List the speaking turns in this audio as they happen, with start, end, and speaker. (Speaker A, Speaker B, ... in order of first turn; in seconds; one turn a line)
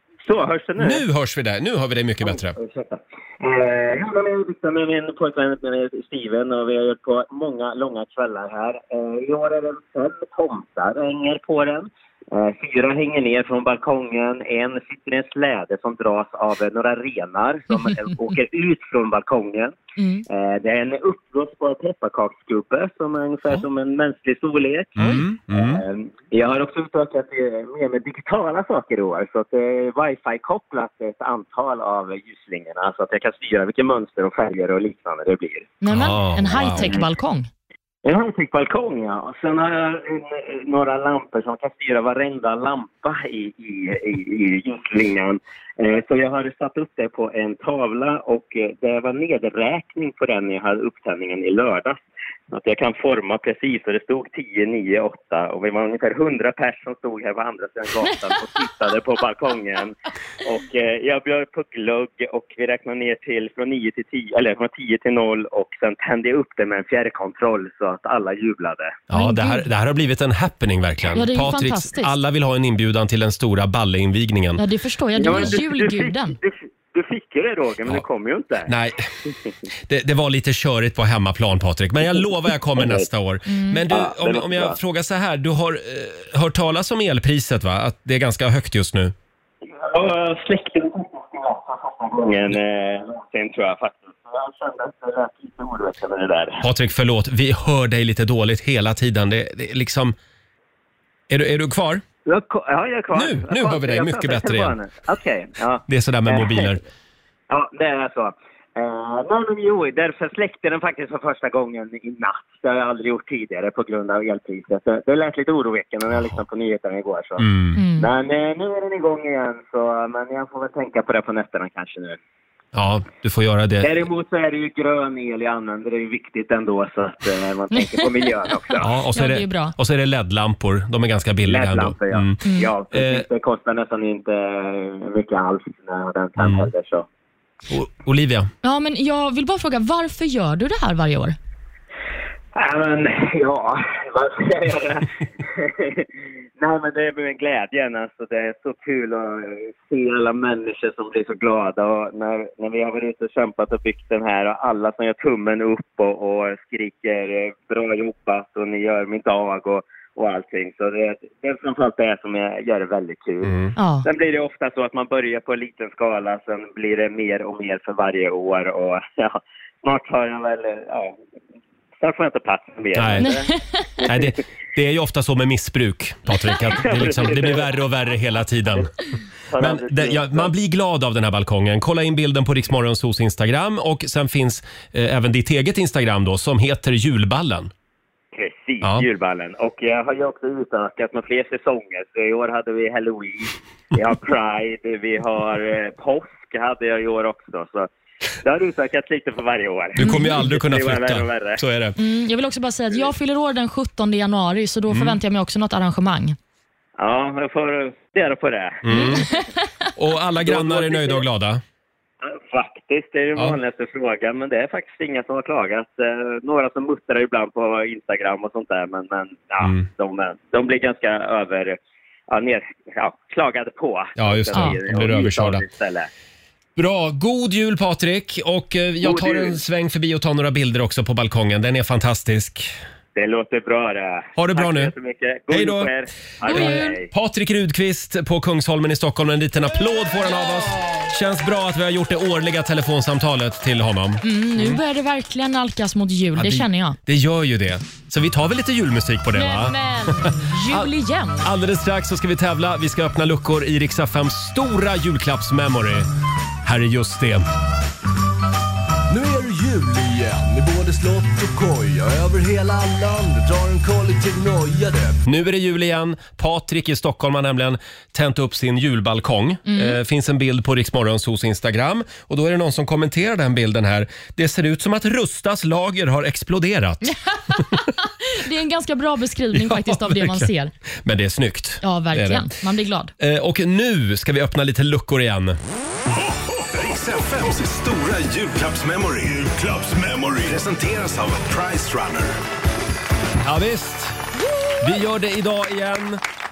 Speaker A: 0.2-1.0
Speaker B: 0.8-2.5
Speaker A: 2.2-19.7
Speaker C: 20.0-20.2
Speaker A: 20.3-35.7
Speaker B: 24.9-25.8
Speaker C: 35.8-37.5
Speaker B: 35.9-37.0
Speaker A: 38.0-52.0
Speaker A: 52.5-69.0
Speaker B: 69.1-74.6
Speaker C: 69.1-69.7
Speaker C: 71.1-72.1
Speaker C: 74.6-76.3
Speaker A: 75.2-78.7
Speaker B: 75.3-75.6
Speaker B: 78.7-79.1
Speaker B: 79.8-89.1
Speaker A: 82.7-83.0
Speaker C: 83.5-83.8
Speaker A: 83.9-84.8
Speaker A: 89.6-96.6
Speaker B: 96.6-100.2
Speaker B: 101.3-102.0
Speaker A: 102.2-106.8
Speaker B: 103.1-104.7
Speaker B: 105.9-106.8
Speaker A: 107.5-117.5
Speaker B: 117.4-117.8
Speaker C: 117.8-118.1
Speaker A: 118.0-122.2
Speaker B: 122.7-123.9
Speaker A: 123.8-128.9
Speaker C: 128.7-129.7
Speaker B: 128.8-132.4
Speaker A: 131.4-137.1
Speaker C: 132.4-132.7
Speaker B: 132.9-133.2
Speaker B: 136.4-136.7
Speaker B: 137.7-138.5
Speaker C: 138.6-141.3
Speaker A: 142.5-146.1
Speaker A: 146.6-171.2
Speaker B: 163.4-163.7
Speaker C: 163.8-164.1
Speaker A: 172.0-173.5
Speaker B: 172.9-173.3
Speaker C: 173.2-173.9
Speaker A: 174.0-174.3
Speaker B: 174.1-178.9
Speaker A: 176.6-177.7
Speaker A: 179.5-180.5
Speaker B: 179.6-187.7
Speaker A: 188.3-197.9
Speaker A: 198.4-201.6
Speaker B: 199.9-202.0
Speaker C: 200.0-200.4
Speaker C: 202.0-206.3
Speaker B: 204.9-205.2
Speaker A: 207.0-209.2
Speaker B: 208.8-209.3
Speaker C: 208.9-209.5
Speaker B: 210.0-211.6
Speaker A: 210.4-211.2
Speaker A: 212.2-221.8
Speaker B: 219.6-219.9
Speaker A: 222.3-226.1
Speaker B: 224.2-225.6
Speaker B: 226.8-232.7
Speaker A: 229.0-229.6
Speaker A: 233.1-237.1
Speaker B: 234.4-234.9
Speaker B: 235.5-235.9
Speaker C: 236.4-236.9
Speaker B: 236.5-244.8
Speaker C: 244.2-247.0
Speaker B: 246.3-256.1
Speaker C: 249.3-251.5
Speaker B: 256.6-257.5
Speaker D: 259.1-265.2
Speaker B: 265.2-277.1
Speaker C: 269.6-270.0
Speaker C: 277.0-280.7
Speaker B: 279.5-280.5
Speaker B: 281.0-282.5
Speaker C: 281.8-283.1
Speaker B: 283.2-285.6
Speaker E: 286.7-292.4
Speaker B: 293.4-294.2
Speaker B: 294.8-296.2